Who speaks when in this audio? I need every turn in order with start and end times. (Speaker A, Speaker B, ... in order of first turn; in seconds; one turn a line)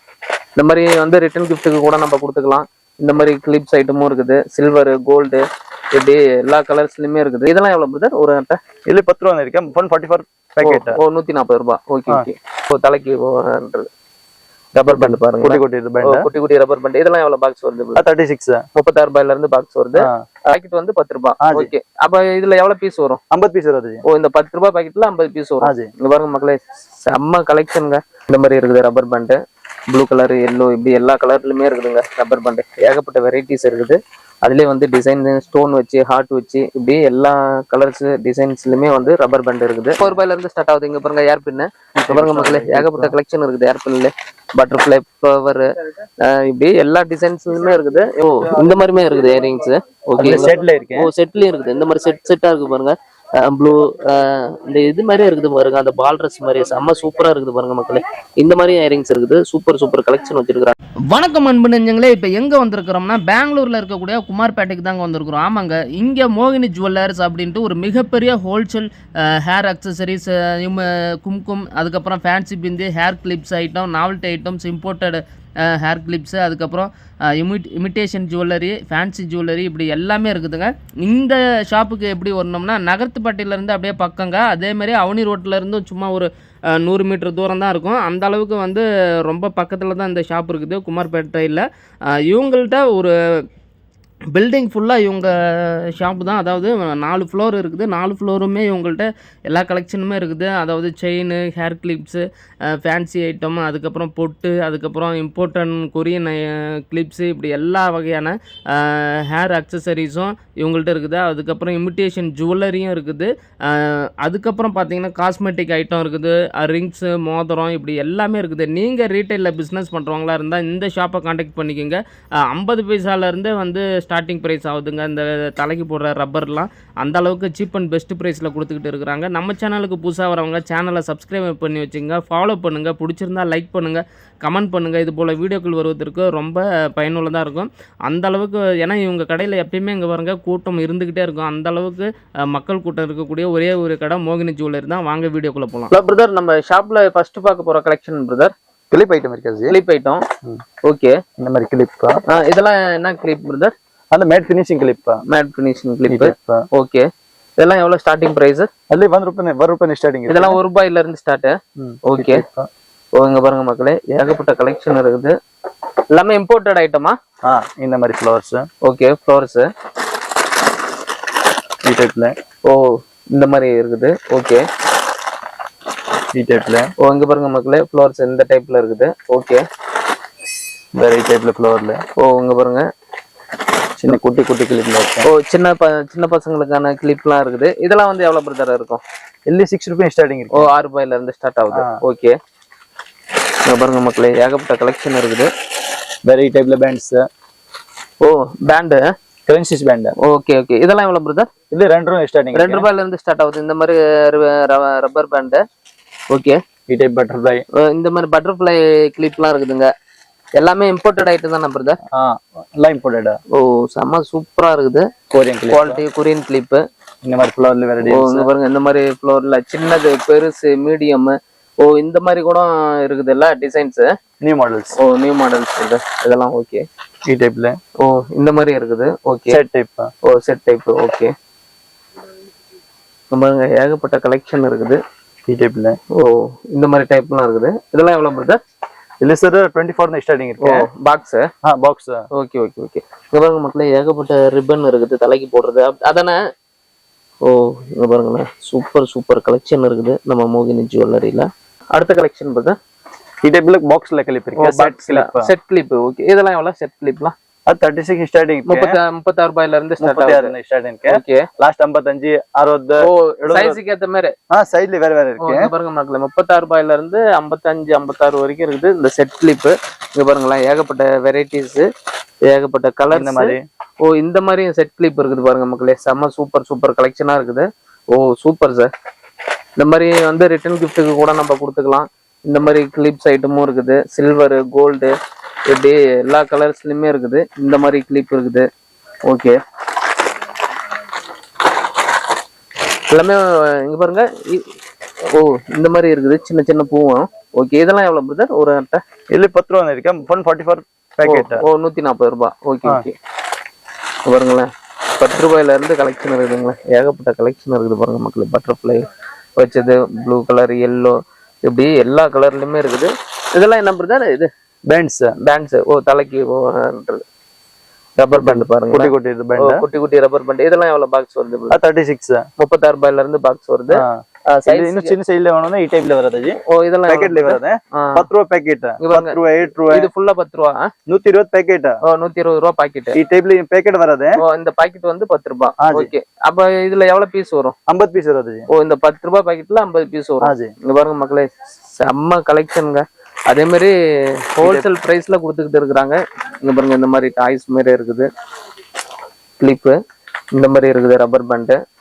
Speaker A: 0.6-8.6
Speaker B: 8.9-11.0
Speaker A: 10.6-13.9
Speaker A: 14.7-18.0
Speaker B: 14.9-16.3
Speaker B: 17.9-18.6
Speaker A: 18.7-23.2
Speaker B: 19.9-20.2
Speaker B: 21.4-21.7
Speaker B: 23.3-24.0
Speaker A: 24.1-29.4
Speaker B: 25.6-25.9
Speaker A: 29.9-45.6
Speaker B: 42.0-43.1
Speaker A: 46.2-60.7
Speaker B: 50.2-51.1
Speaker C: 61.1-93.1
Speaker C: 94.3-145.9
Speaker A: 145.9-148.5
Speaker B: 148.9-149.8
Speaker A: 149.7-150.2
Speaker A: 150.8-151.2
Speaker B: 151.4-152.2
Speaker A: 152.3-153.7
Speaker B: 154.1-155.2
Speaker A: 155.3-157.1
Speaker B: 156.1-156.6
Speaker A: 157.6-158.7
Speaker B: 158.9-160.6
Speaker A: 160.3-162.4
Speaker B: 161.8-162.7
Speaker A: 163.2-165.3
Speaker A: 166.1-167.2
Speaker B: 167.4-168.7
Speaker A: 168.8-169.7
Speaker B: 171.8-172.3
Speaker A: 172.7-174.6
Speaker B: 176.3-176.9
Speaker A: 177.0-179.6
Speaker B: 180.9-182.0
Speaker A: 182.2-182.8
Speaker B: 184.0-185.3
Speaker A: 185.2-189.0
Speaker B: 189.5-190.7
Speaker A: 190.5-192.3
Speaker A: 193.7-195.5
Speaker B: 196.2-197.3
Speaker A: 198.2-199.0
Speaker B: 199.4-200.1
Speaker A: 200.2-201.5
Speaker B: 201.7-202.9
Speaker A: 202.5-205.6
Speaker A: 206.3-206.6
Speaker B: 206.9-207.6
Speaker A: 207.8-209.9
Speaker A: 210.6-212.0
Speaker B: 212.1-213.4
Speaker A: 213.5-215.1
Speaker B: 215.3-216.0
Speaker A: 215.7-216.8
Speaker B: 217.2-218.5
Speaker A: 218.0-224.1
Speaker B: 224.4-224.9
Speaker A: 225.0-226.8
Speaker B: 227.2-227.8
Speaker A: 228.0-229.6
Speaker B: 229.5-230.1
Speaker A: 230.2-231.3
Speaker A: 233.3-235.0
Speaker B: 235.5-236.0
Speaker A: 236.1-238.6
Speaker B: 239.2-240.9
Speaker A: 240.6-241.5
Speaker B: 241.6-242.2
Speaker A: 242.3-246.4
Speaker A: 247.4-252.8
Speaker B: 253.4-255.5
Speaker A: 254.6-257.3
Speaker B: 257.7-258.9
Speaker A: 258.7-260.5
Speaker B: 260.0-263.8
Speaker A: 261.1-261.4
Speaker A: 263.0-264.3
Speaker B: 264.5-265.7
Speaker A: 265.4-271.9
Speaker A: 272.4-278.9
Speaker B: 273.1-273.6
Speaker A: 279.8-285.1
Speaker A: 285.7-288.7
Speaker A: 289.2-289.6
Speaker A: 293.1-294.7
Speaker A: 295.3-299.0
Speaker B: 299.3-301.6
Speaker A: 301.2-303.1
Speaker A: 304.2-309.0
Speaker A: 309.6-314.5
Speaker B: 314.9-315.3
Speaker A: 315.4-317.2
Speaker A: 318.2-321.8
Speaker B: 318.4-319.8
Speaker B: 321.7-322.4
Speaker A: 322.6-325.1
Speaker B: 323.9-326.6
Speaker A: 326.7-328.2
Speaker B: 327.1-330.1
Speaker A: 329.0-329.4
Speaker A: 329.9-330.9
Speaker B: 331.1-332.0
Speaker A: 332.1-333.1
Speaker B: 333.1-334.4
Speaker A: 334.4-337.7
Speaker B: 335.8-336.1
Speaker B: 337.9-338.6
Speaker A: 338.7-348.3
Speaker B: 340.4-340.7
Speaker B: 344.6-344.9
Speaker A: 349.6-350.0
Speaker A: 350.5-351.8